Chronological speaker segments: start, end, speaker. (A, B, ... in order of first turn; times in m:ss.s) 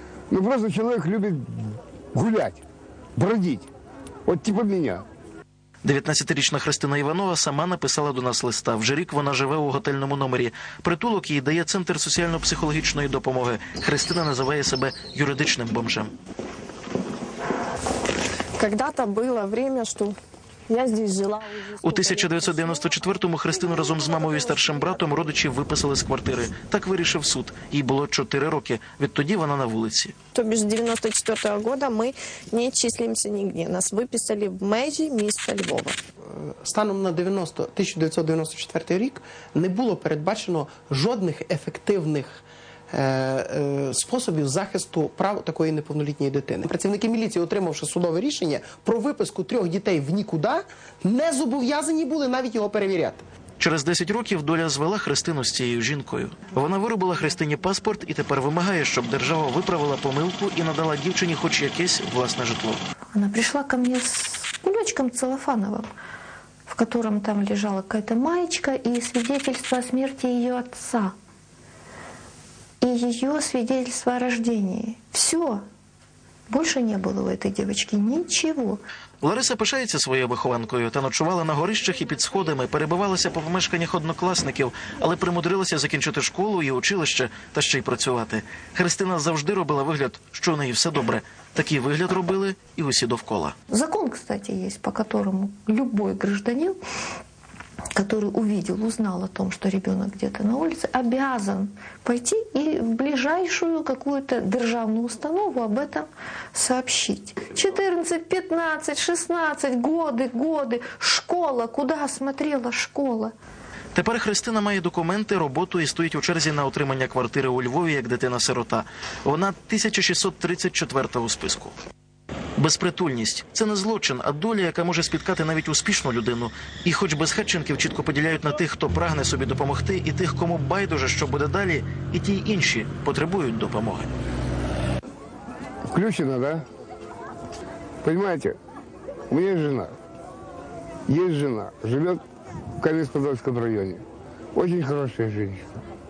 0:00.3-0:02.6 A
0:03.2-0:03.7 A
0:04.2-0:05.0 A
0:05.8-0:16.1 B
0:18.6-0:20.2 C
0:20.7-0:22.8 C
0:21.8-0:30.1 B
0:30.3-0:36.0 C
0:36.6-0:53.2 D
0:53.6-1:02.8 B
1:03.2-1:05.8 E
1:06.7-1:11.1 E
1:12.8-1:15.6 E
1:16.5-1:18.8 E
1:19.2-1:33.6 B
1:33.7-1:36.8 E
1:38.0-1:53.3 E
1:53.9-2:01.8 B
2:02.6-2:14.1 B
2:15.9-2:16.6 A
2:18.0-2:18.6 A
2:19.3-2:19.9 A
2:21.1-2:22.2 A
2:22.8-2:24.0 A
2:24.5-2:25.7 A